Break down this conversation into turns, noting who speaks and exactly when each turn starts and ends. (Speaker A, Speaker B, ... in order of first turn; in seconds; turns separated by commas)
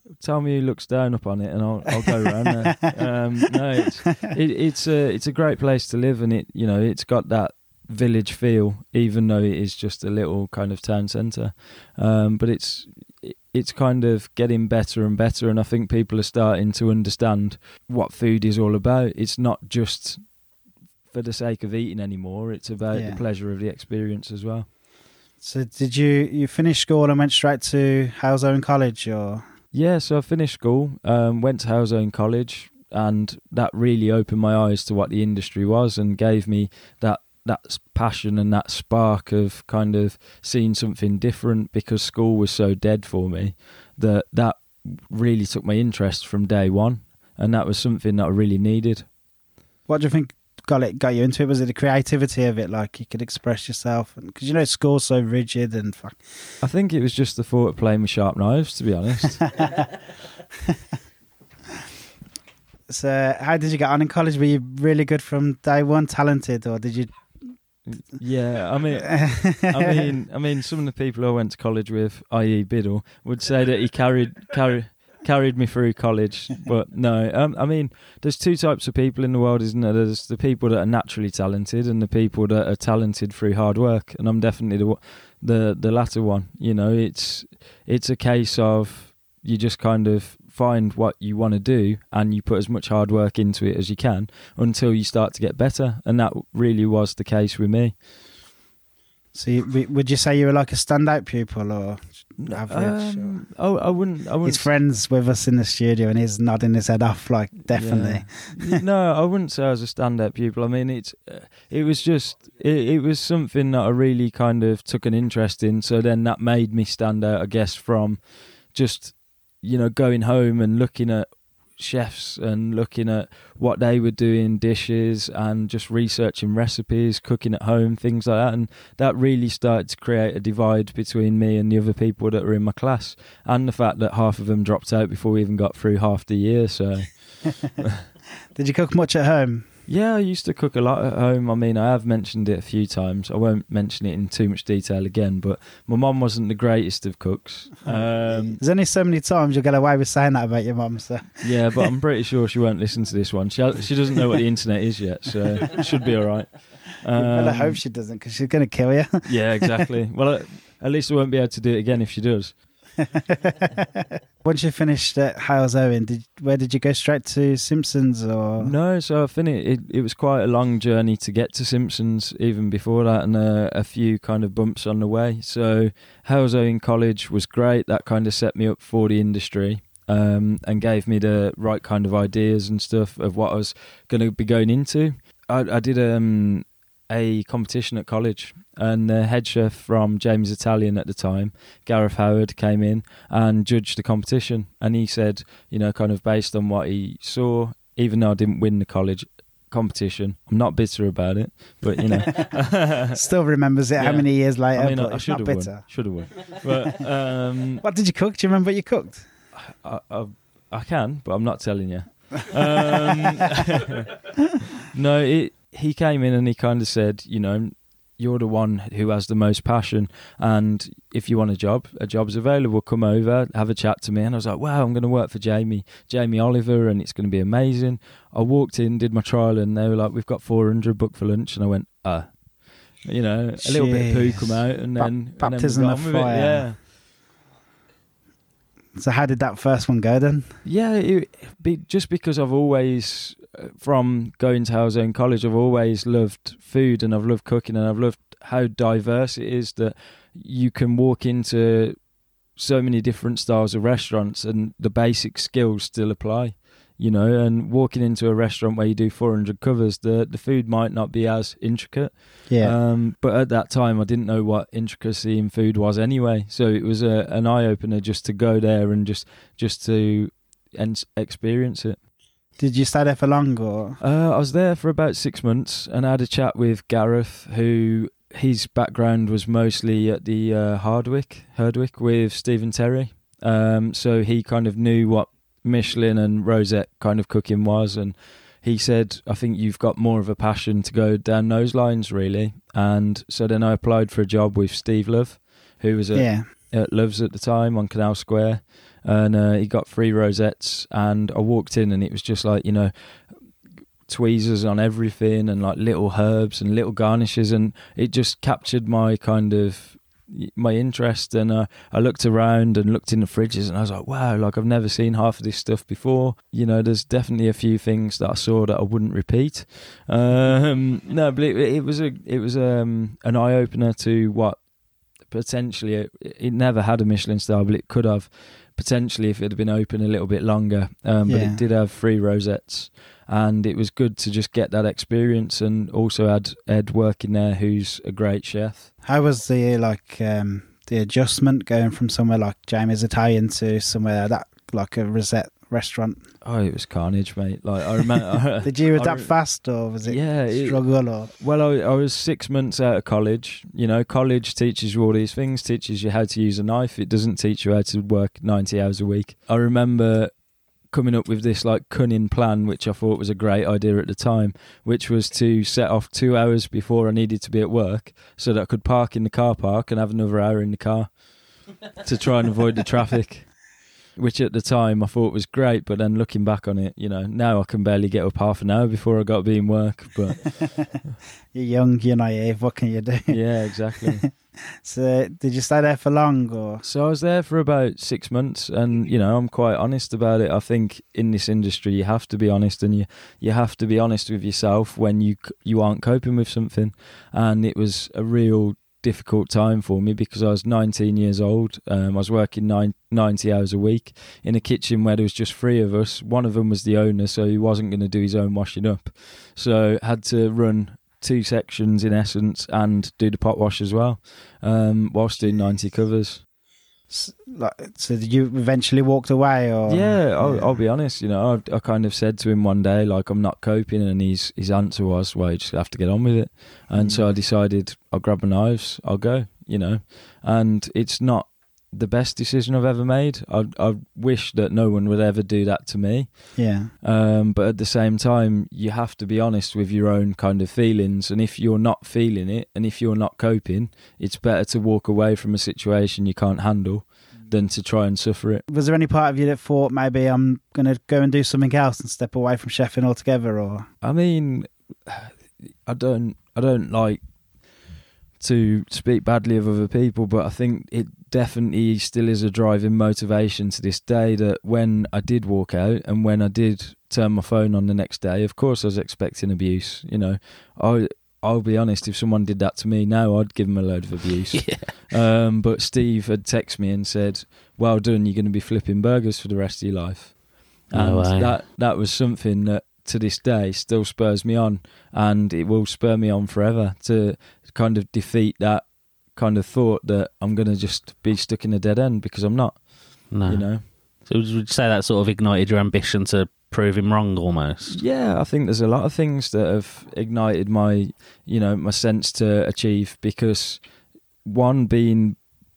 Speaker A: 0.2-20.2, Speaker B: 2.6-2.9, Speaker A: 21.1-24.7, Speaker B: 22.9-23.2, Speaker B: 25.4-29.4, Speaker A: 29.7-49.1, Speaker B: 49.9-56.2, Speaker A: 56.6-59.5, Speaker B: 59.5-59.8, Speaker B: 62.9-67.5, Speaker A: 67.8-98.0, Speaker B: 69.0-70.1, Speaker B: 99.3-103.5, Speaker A: 102.4-104.7, Speaker B: 104.4-108.8, Speaker A: 107.7-138.0, Speaker B: 138.5-139.7, Speaker A: 139.9-148.6, Speaker B: 147.8-151.8, Speaker A: 151.4-157.8, Speaker B: 157.1-159.8, Speaker A: 159.2-162.8, Speaker B: 163.3-168.7, Speaker A: 168.6-203.2, Speaker B: 201.9-206.0, Speaker A: 204.0-207.8, Speaker B: 207.8-209.2, Speaker A: 209.5-214.2, Speaker B: 212.8-213.2, Speaker A: 214.8-236.8, Speaker B: 233.6-236.7, Speaker B: 238.9-240.5, Speaker A: 240.6-252.0, Speaker A: 252.5-272.0, Speaker B: 262.5-262.7, Speaker B: 272.6-274.0, Speaker A: 274.0-303.2, Speaker B: 296.1-296.5, Speaker A: 304.1-324.6, Speaker A: 325.2-338.9, Speaker B: 331.2-331.6, Speaker B: 339.0-346.2, Speaker A: 346.4-349.3, Speaker B: 348.6-351.3, Speaker A: 350.0-360.3, Speaker A: 360.9-380.8, Speaker B: 381.5-383.4, Speaker A: 383.3-384.2, Speaker B: 384.0-386.8, Speaker A: 386.8-416.4, Speaker B: 417.1-420.8, Speaker A: 419.9-448.6, Speaker B: 426.9-427.3, Speaker B: 436.6-436.9, Speaker B: 448.7-453.9, Speaker A: 454.0-457.2, Speaker A: 458.4-493.9, Speaker C: 474.5-474.9, Speaker C: 480.9-481.6, Speaker C: 493.3-498.0, Speaker A: 497.9-503.8, Speaker A: 504.4-505.4